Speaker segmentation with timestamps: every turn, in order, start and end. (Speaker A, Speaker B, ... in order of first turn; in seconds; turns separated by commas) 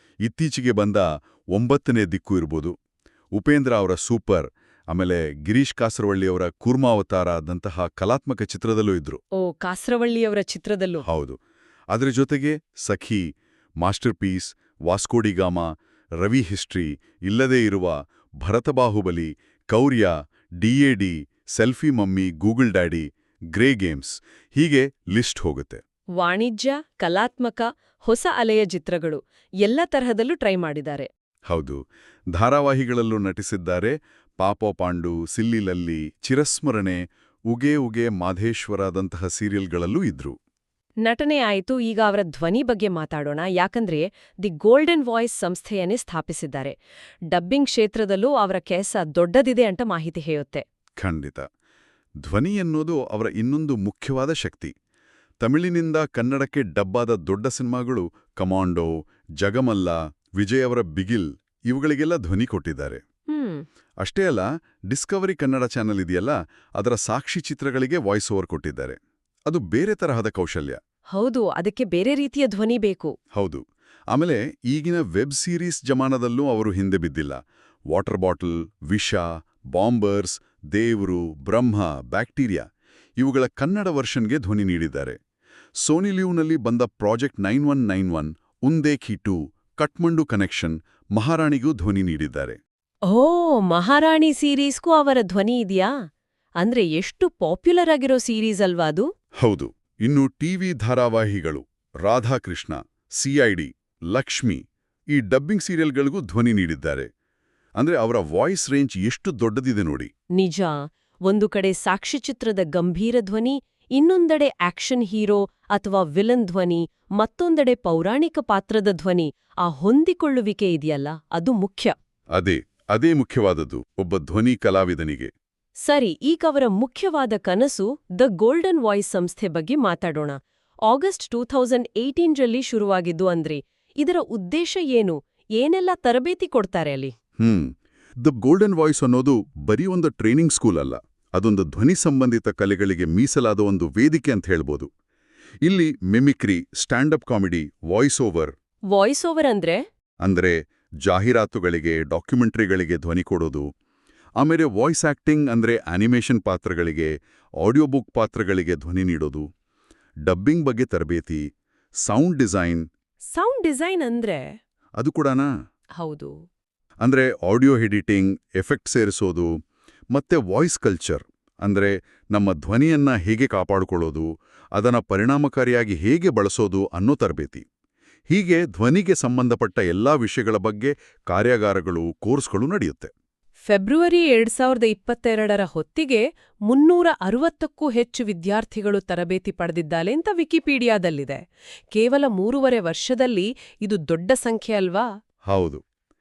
Speaker A: 0.2-2.7, Speaker A: 3.3-9.2, Speaker B: 9.4-11.0, Speaker A: 11.0-11.4, Speaker A: 11.9-13.2, Speaker A: 13.8-15.7, Speaker A: 16.2-25.8, Speaker B: 26.2-31.1, Speaker A: 31.5-31.8, Speaker A: 32.3-40.3, Speaker B: 41.0-46.8, Speaker B: 47.3-50.6, Speaker A: 51.0-51.4, Speaker A: 52.2-54.7, Speaker A: 55.4-63.0, Speaker B: 63.3-63.6, Speaker A: 64.0-69.0, Speaker A: 69.5-70.8, Speaker B: 71.1-73.1, Speaker A: 73.3-77.4, Speaker A: 77.9-82.6, Speaker A: 83.2-85.2, Speaker A: 85.8-92.6, Speaker B: 93.1-95.9, Speaker B: 96.6-99.0, Speaker A: 99.4-107.1, Speaker A: 107.8-110.1, Speaker B: 110.3-121.9, Speaker A: 122.3-125.3, Speaker B: 125.8-137.1, Speaker A: 137.4-144.9, Speaker A: 145.6-148.5, Speaker B: 148.9-149.8, Speaker A: 150.2-153.7, Speaker A: 154.4-159.4, Speaker A: 160.2-161.4, Speaker A: 162.0-162.8, Speaker B: 163.3-164.4, Speaker A: 165.0-165.5, Speaker B: 166.0-166.3, Speaker A: 167.0-169.5, Speaker A: 170.1-177.6, Speaker A: 178.3-183.1, Speaker B: 183.7-191.4, Speaker B: 191.9-195.1, Speaker A: 195.5-195.8